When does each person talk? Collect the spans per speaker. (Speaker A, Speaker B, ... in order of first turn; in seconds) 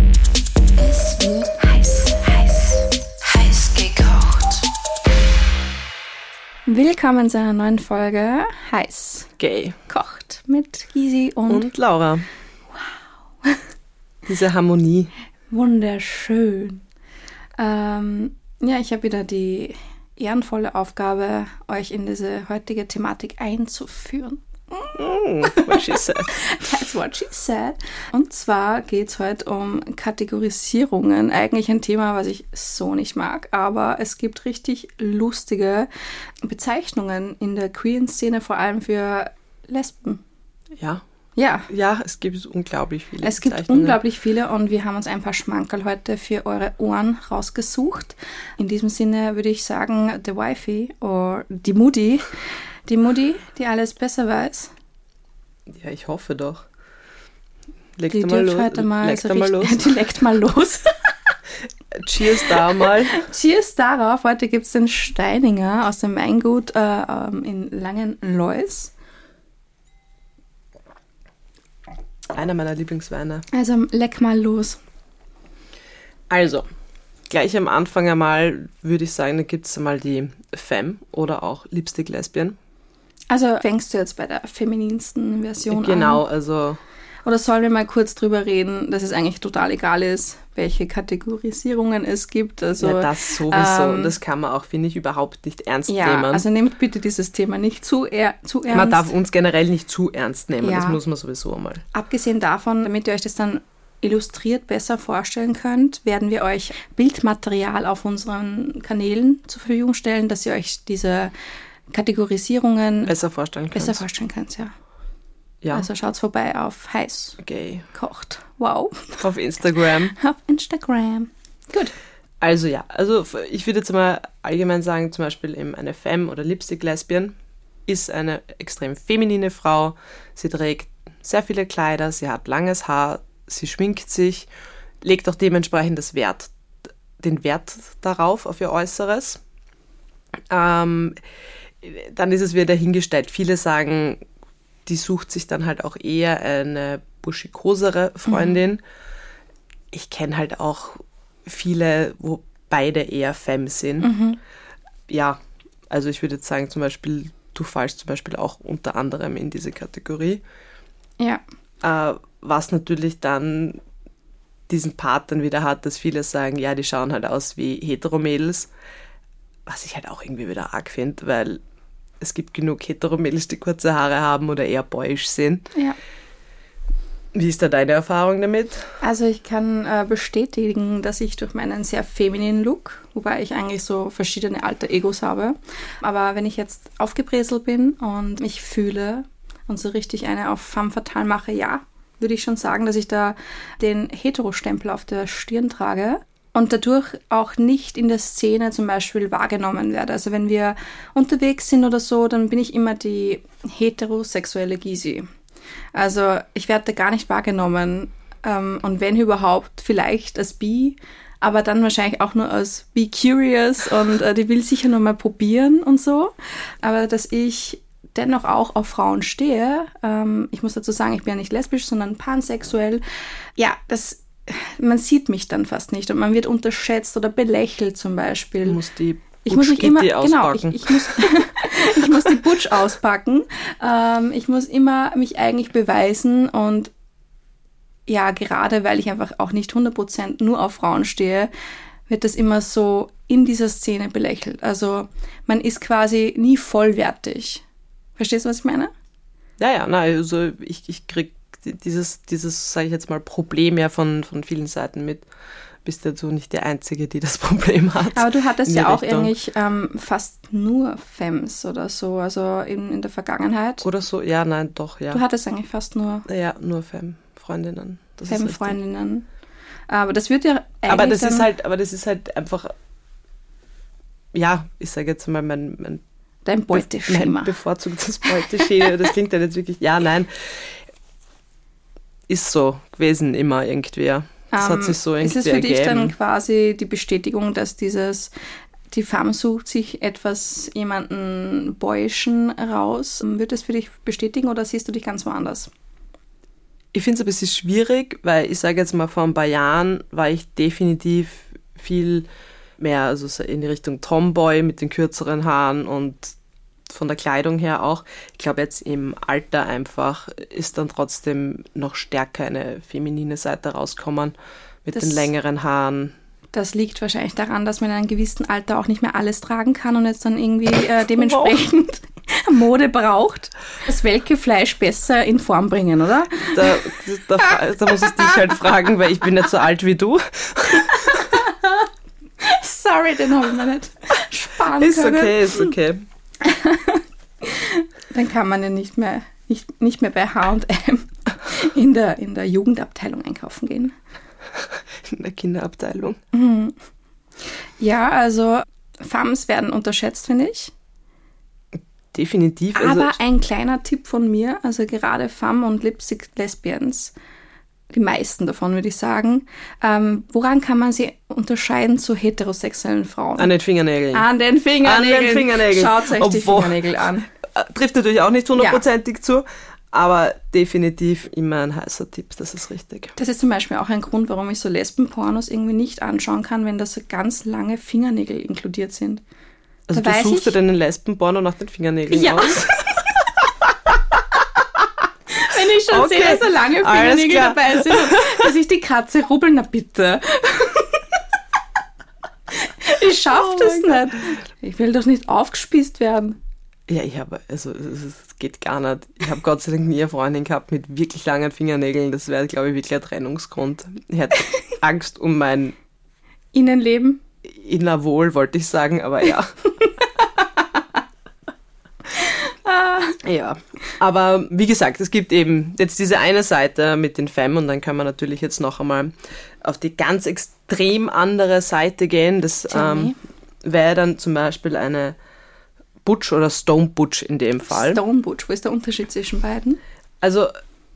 Speaker A: 0.8-4.7, 6.7-9.3, 9.9-11.7, 15.5-16.8, 17.6-35.9, 36.4-40.2, 41.4-41.7, 43.2-52.3, 52.9-54.7, 58.1-61.3, 62.3-68.9, 73.5-74.8, 83.3-86.2, 87.2-94.1, 95.9-99.1, 100.6-101.0, 101.9-111.3, 111.9-113.1, 113.7-114.7, 115.7-117.4, 117.9-119.2, 120.0-121.9, 148.3-148.6, 154.0-154.4, 179.0-205.3, 205.9-223.0, 223.6-228.8, 229.4-236.9, 238.1-241.5, 242.1-247.6, 248.2-248.9, 258.1-263.9, 265.1-266.3, 268.3-269.3, 269.9-271.5, 276.4-277.5, 284.5-288.3, 288.9-295.7, 314.9-315.3, 316.5-328.7, 330.8-331.9, 332.4-335.7, 336.4-343.9, 346.3-346.8, 347.8-350.7, 352.7-357.1, 357.9-363.5, 364.1-367.3, 368.6-368.8, 373.2-379.2, 379.9-380.6, 382.1-383.1, 385.3-391.2, 392.5-396.4, 406.5-407.2, 409.8-410.8, 412.1-413.2, 422.7-423.2, 427.7-429.8
Speaker B: 9.4-9.8, 11.5-12.3, 14.3-15.1, 24.9-26.4, 40.8-41.0, 41.7-44.0, 55.7-56.6, 58.0-60.0, 61.9-63.2, 72.3-73.5, 76.3-76.7, 77.3-82.5, 85.7-86.8, 92.8-96.4, 98.7-101.8, 113.1-114.0, 115.6-115.9, 117.4-117.9, 119.2-120.1, 122.4-127.3, 127.9-134.5, 135.0-136.5, 137.2-139.4, 140.5-141.2, 141.8-144.2, 144.8-148.8, 149.9-154.1, 155.1-155.4, 155.9-160.4, 161.8-163.8, 164.7-168.7, 169.7-171.6, 172.2-175.7, 177.3-178.9, 228.6-231.3, 231.9-232.4, 249.6-255.2, 255.8-259.3, 263.8-265.2, 266.3-268.8, 270.9-272.7, 274.3-276.0, 276.7-280.8, 282.3-286.1, 296.9-306.3, 306.9-316.1, 321.1-321.5, 326.5-331.4, 334.8-336.0, 344.6-346.2, 352.1-353.2, 363.4-364.2, 364.8-373.1, 379.9-384.8, 385.9-388.5, 393.3-394.2, 396.9-405.8, 407.4-409.6, 413.2-425.2, 426.0-428.0, 430.2-430.5